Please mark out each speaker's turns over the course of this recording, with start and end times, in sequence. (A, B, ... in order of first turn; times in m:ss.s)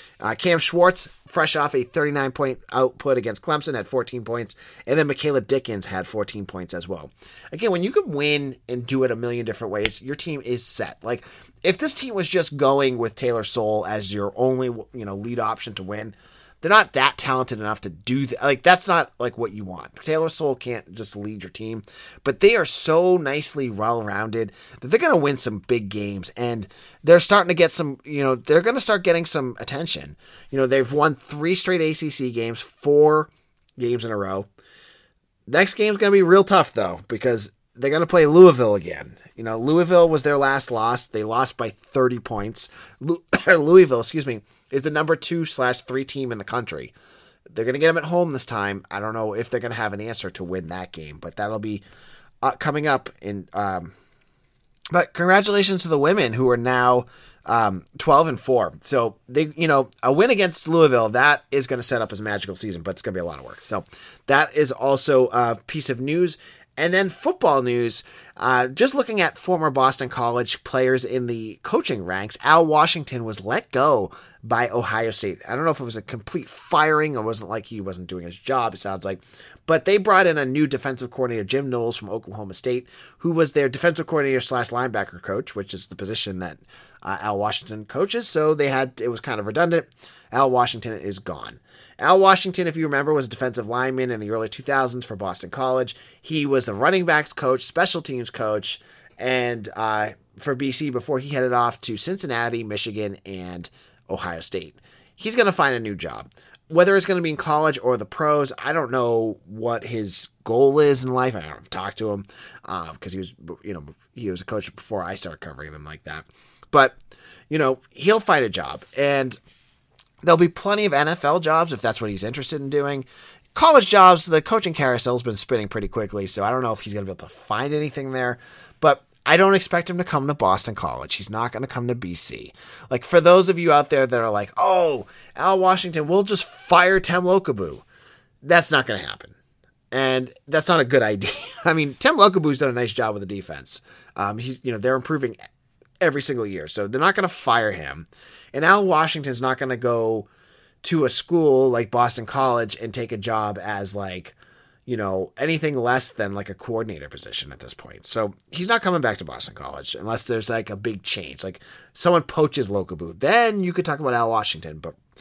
0:00.2-0:34.5 A
0:35.5-0:46.9 A
0:47.5-0:51.8 A
0:52.4-0:53.9 A
0:54.9-1:57.0 A
1:57.5-1:59.4 A
2:00.2-2:17.8 A
2:18.4-2:19.3 A
2:19.9-2:25.4 A
2:26.0-2:30.3 A
2:30.8-2:34.3 A
2:34.9-2:45.0 A